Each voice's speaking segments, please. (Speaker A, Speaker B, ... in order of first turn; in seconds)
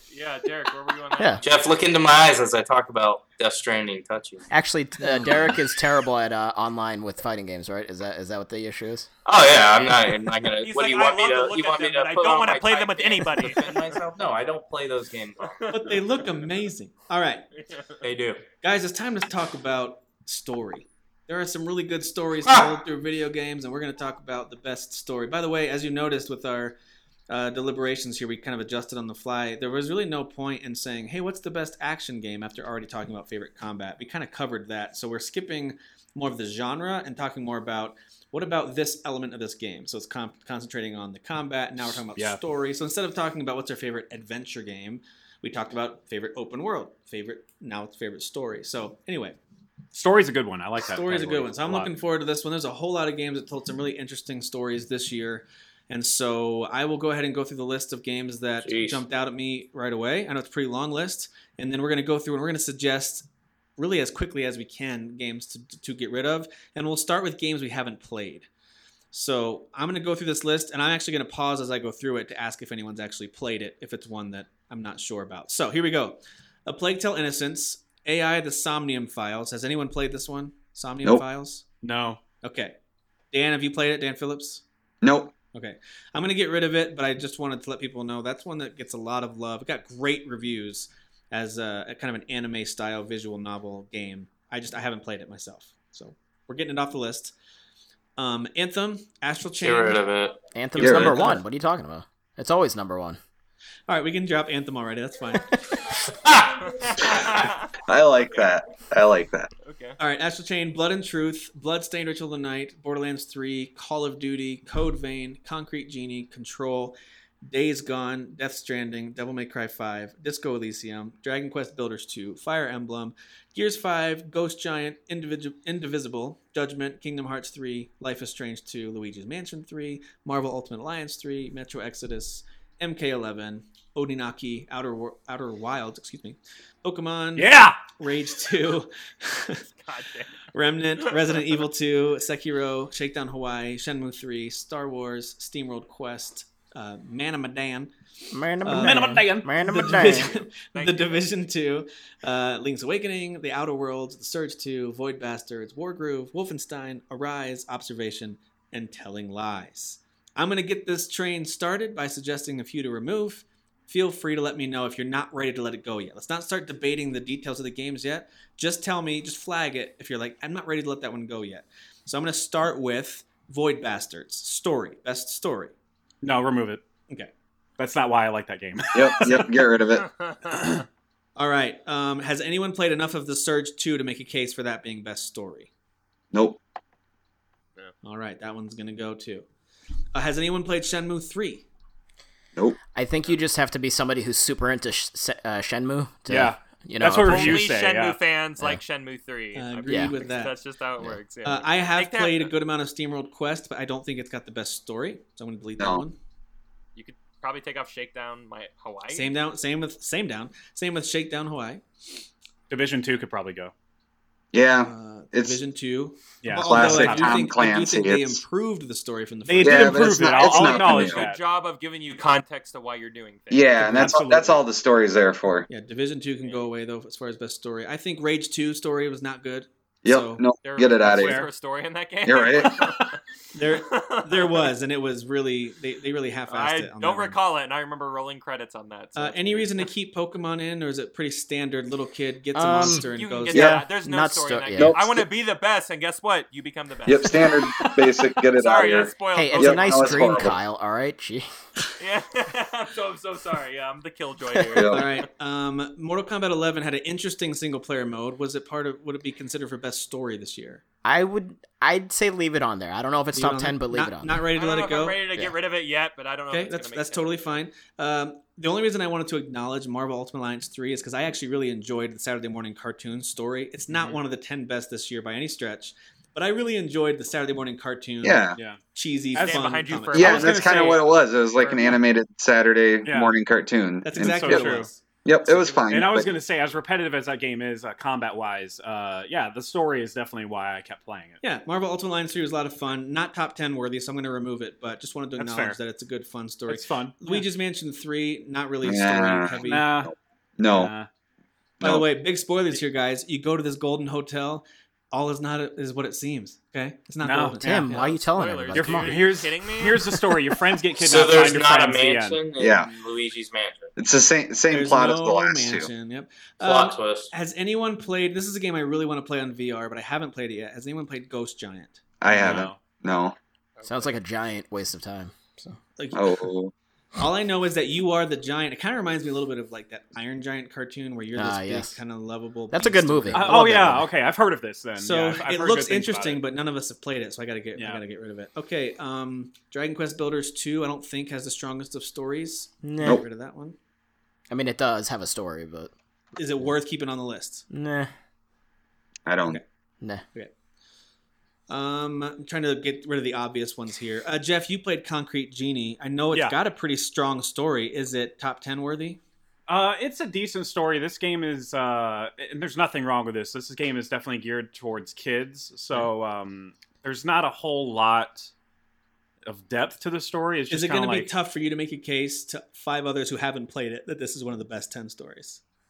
Speaker A: 0.1-1.5, 10.6-13.9, 15.5-16.4, 17.6-18.0, 106.6-107.7, 109.6-110.0, 139.8-140.4, 141.0-141.4, 150.6-151.3, 180.0-180.7, 197.2-202.5, 207.0-209.3, 220.3-224.0, 230.6-233.2, 233.9-234.7, 236.5-239.9, 242.9-247.9, 248.5-250.5, 252.0-255.2, 264.6-267.4, 279.4-282.0, 307.9-310.1, 323.8-324.1
Speaker B: 1.2-1.4, 4.5-9.1, 100.5-103.2, 148.3-150.3, 192.9-197.7, 199.9-200.2, 242.6-245.0, 249.3-251.5, 254.6-254.8, 261.1-264.5, 307.6-309.3, 323.9-325.8, 331.4-332.0, 332.7-334.1, 342.8-343.2, 344.5-345.9, 347.7-348.1
Speaker C: 1.4-4.5, 9.2-15.5, 18.0-18.4, 58.6-59.0, 99.6-100.4, 106.1-107.4, 311.0-313.9, 316.6-317.3
Speaker D: 15.7-17.4, 18.6-26.8, 27.3-49.4, 50.9-63.3, 63.8-68.5, 69.1-81.7, 82.4-82.8, 83.3-84.6, 85.5-97.3, 98.2-100.0, 100.8-101.4, 103.9-105.6, 110.0-139.6, 140.5-147.9, 148.6-175.7, 181.4-185.7, 188.0-189.5, 190.1-191.7, 199.5-200.6, 201.4-206.2, 209.1-211.8, 214.8-220.3, 225.7-230.4, 233.5-237.4, 239.2-243.7, 254.9-260.8, 263.3-265.2, 266.5-280.6, 284.0-285.0, 291.4-299.9, 301.8-308.0, 314.7-322.0, 326.0-326.3, 327.2-333.7, 335.0-343.8, 346.4-347.7, 351.7-359.2, 370.7-375.6
Speaker E: 49.9-51.9, 81.8-82.2, 137.4-137.8, 148.8-149.5, 176.2-176.8, 177.8-179.6, 196.3-198.2, 212.7-213.7, 216.4-217.4, 219.5-221.4, 223.8-224.6, 231.0-231.5, 273.9-274.2, 278.6-278.8, 279.4-281.0, 283.1-283.3, 284.2-284.9, 285.9-291.4, 295.4-295.8, 296.7-297.5, 299.6-300.1, 300.7-301.1, 307.2-308.0, 308.7-312.4, 322.3-322.8, 333.3-336.4, 337.8-338.0, 359.7-368.5, 369.4-371.3
Speaker F: 85.0-85.3, 100.8-101.2, 107.9-109.5, 178.9-180.1, 186.3-186.6, 205.8-206.0, 214.5-215.6, 216.6-218.4, 219.6-221.2, 223.5-225.7, 230.0-231.5, 232.2-232.8, 243.5-243.9, 244.8-245.3, 247.1-250.6, 254.7-255.1, 278.2-278.6, 280.1-286.3, 298.8-300.9, 301.8-302.1, 312.6-312.9, 314.0-315.9, 322.2-323.4, 326.1-326.7, 349.3-349.6